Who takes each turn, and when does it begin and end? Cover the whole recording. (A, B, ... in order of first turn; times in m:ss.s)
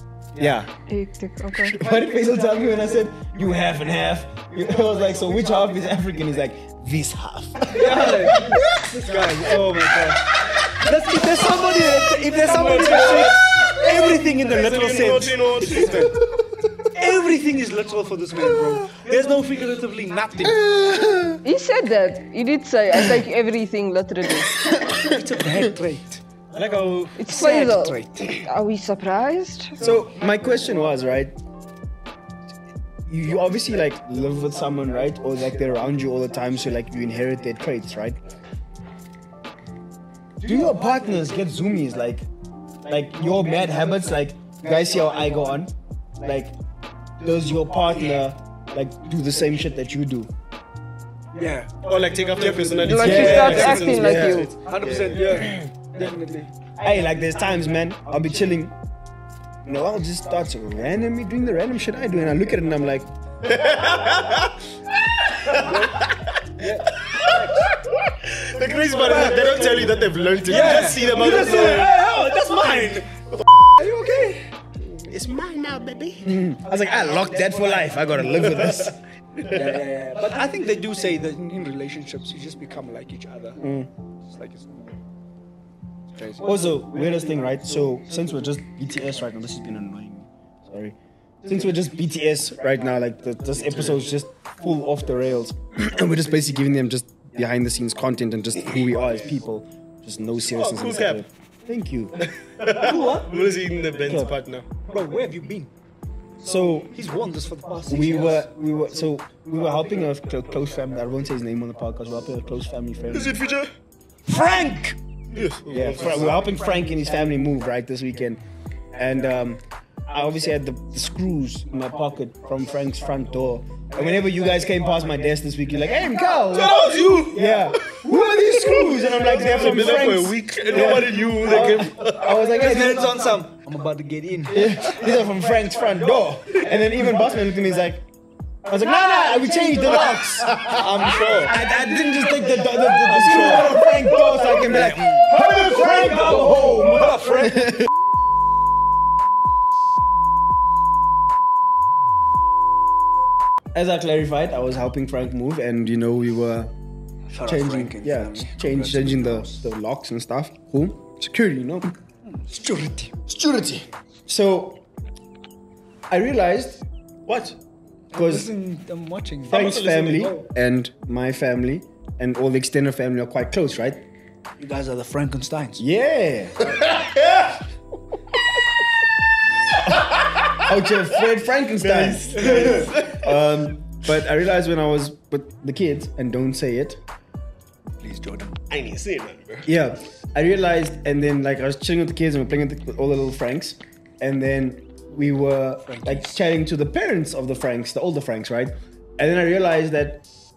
0:00.4-0:00.7 A
0:00.9-0:01.8 B
0:01.7-0:08.6 A
0:07.7-0:16.2 C
0:12.3-0:13.8 D
0:14.4-0:16.1 D
0:16.8-0:20.6 C
0:20.4-0:21.4 A
0:21.4-0:24.5 B
0:24.7-0:25.0 A
0:24.9-0:26.2 C
0:26.5-0:27.2 D
0:27.2-0:29.8 B
0:27.3-0:28.4 C
0:29.8-0:31.3 A
0:33.1-0:38.2 A
0:40.4-0:42.2 A
0:42.8-0:46.5 A
0:47.2-0:50.3 A
0:51.3-0:56.5 C
0:51.8-0:55.5 D
0:52.8-0:54.5 B
0:53.0-0:54.5 A
0:56.8-0:58.7 A
0:59.6-1:03.1 A
1:03.4-1:04.6 D
1:05.2-1:12.0 D
1:05.6-1:05.9 C
1:06.6-1:07.4 C
1:09.0-1:09.9 C
1:10.4-1:13.1 C
1:13.8-1:14.4 C
1:14.8-1:16.2 D
1:16.2-1:19.0 A
1:19.4-1:23.6 C
1:23.6-1:23.9 A
1:24.2-1:25.0 C
1:26.1-1:26.7 C
1:26.4-1:42.2 A
1:33.6-1:34.0 D
1:40.4-1:41.2 D
1:42.4-1:44.6 D
1:42.8-1:43.3 C
1:44.0-1:44.4 A
1:44.9-1:45.7 C
1:46.4-1:46.9 A
1:46.9-1:48.5 C
1:47.8-1:53.4 A
1:53.1-1:53.7 D
1:54.3-1:55.0 C
1:55.3-1:56.5 D
1:55.7-1:58.4 A
1:58.9-2:13.2 A
2:06.5-2:08.0 D
2:08.8-2:12.3 D
2:10.7-2:14.9 C
2:14.5-2:18.0 A
2:18.6-2:27.9 A
2:19.4-2:21.6 C
2:20.4-2:21.5 D
2:23.0-2:27.8 C
2:33.7-2:36.7 A
2:37.3-2:39.6 C
2:37.4-2:41.9 A
2:42.2-2:43.1 C
2:43.3-2:44.8 A
2:46.1-2:46.8 A
2:47.3-2:47.6 D
2:48.1-2:50.5 C
2:48.1-2:48.5 A
2:49.5-2:54.0 A
2:49.5-2:50.3 D
2:54.6-2:55.8 C
2:55.8-2:56.7 A
2:56.9-2:57.5 D
2:59.8-3:07.0 A
3:01.8-3:03.3 D
3:02.4-3:02.9 C
3:08.0-3:08.6 C
3:08.7-3:09.7 D
3:09.6-3:20.2 A
3:15.8-3:16.4 C